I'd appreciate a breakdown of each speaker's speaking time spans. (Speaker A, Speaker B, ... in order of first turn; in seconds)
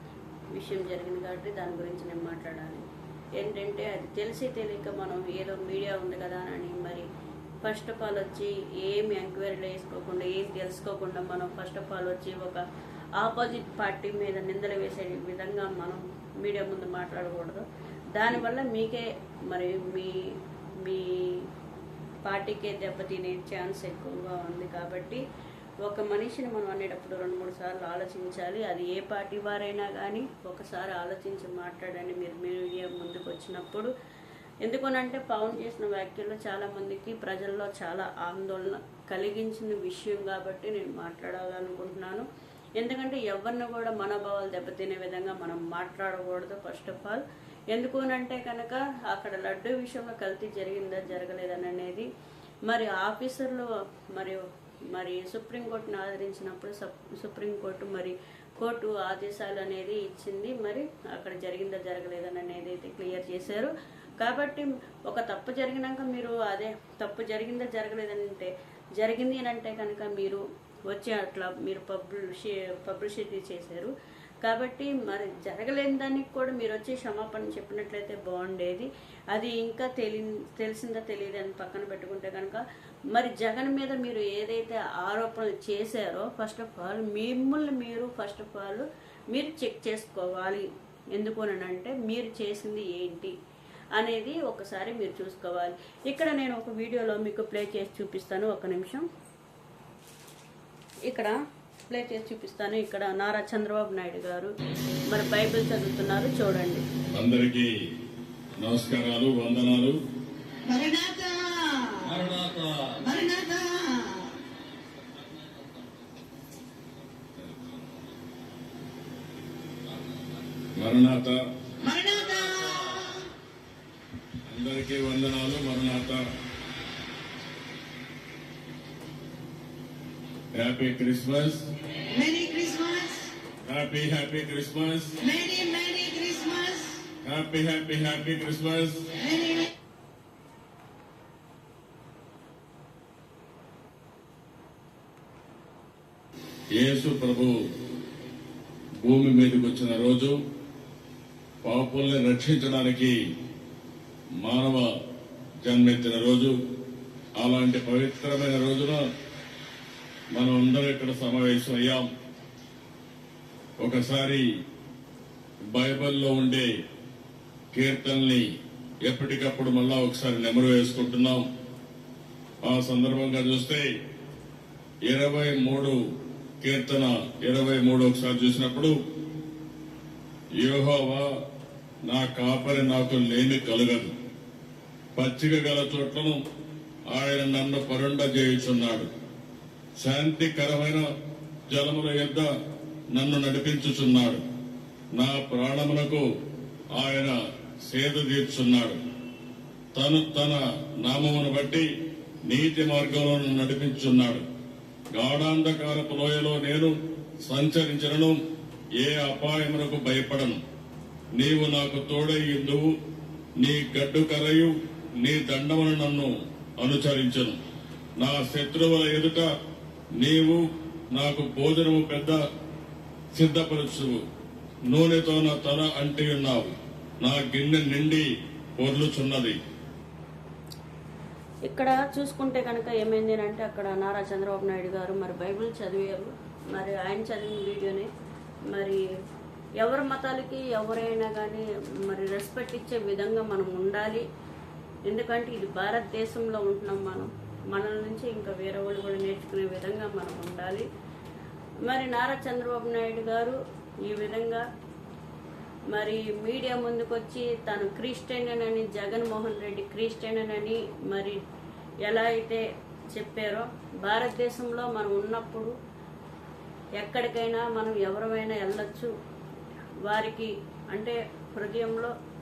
Speaker A: 0.5-2.9, 3.4-7.0, 7.6-12.6, 13.2-17.6, 18.1-20.2, 20.8-21.4, 22.2-25.2, 25.8-33.9, 34.6-42.2, 42.8-52.1, 52.7-73.9, 74.4-93.3, 94.0-99.0, 101.0-101.3, 101.9-104.5, 105.1-106.8, 231.7-238.1, 238.7-239.0, 239.8-244.2, 245.1-250.9, 251.8-254.6, 255.9-261.4, 262.0-265.7, 267.0-269.1, 270.0-272.1
Speaker B: 107.1-107.7, 108.6-110.0, 112.0-113.0, 115.0-116.2, 117.3-118.0, 120.0-121.4, 124.5-126.2, 130.5-131.6, 133.6-135.2, 137.2-139.1, 146.8-147.6, 149.0-150.3, 151.6-153.1, 154.4-154.9, 155.6-156.5, 157.4-159.0, 160.3-162.1, 163.8-164.4, 165.7-166.7, 167.7-168.4, 169.1-171.4, 172.6-173.9, 175.1-176.0, 176.6-178.9, 180.6-181.2, 182.0-184.1, 185.2-186.4, 187.1-189.1, 190.0-191.0, 191.7-192.5, 193.1-194.4, 195.1-196.2, 196.9-197.3, 197.9-199.0, 199.9-201.9, 202.4-204.4, 205.1-206.9, 207.4-208.4, 209.0-210.6, 211.3-212.8, 213.6-217.6, 218.2-219.4, 220.2-220.6, 221.1-222.4, 223.3-224.2, 224.9-229.6
Speaker C: 110.6-112.3, 113.0-114.3, 121.8-123.3, 132.1-133.3, 135.2-137.0, 139.2-139.7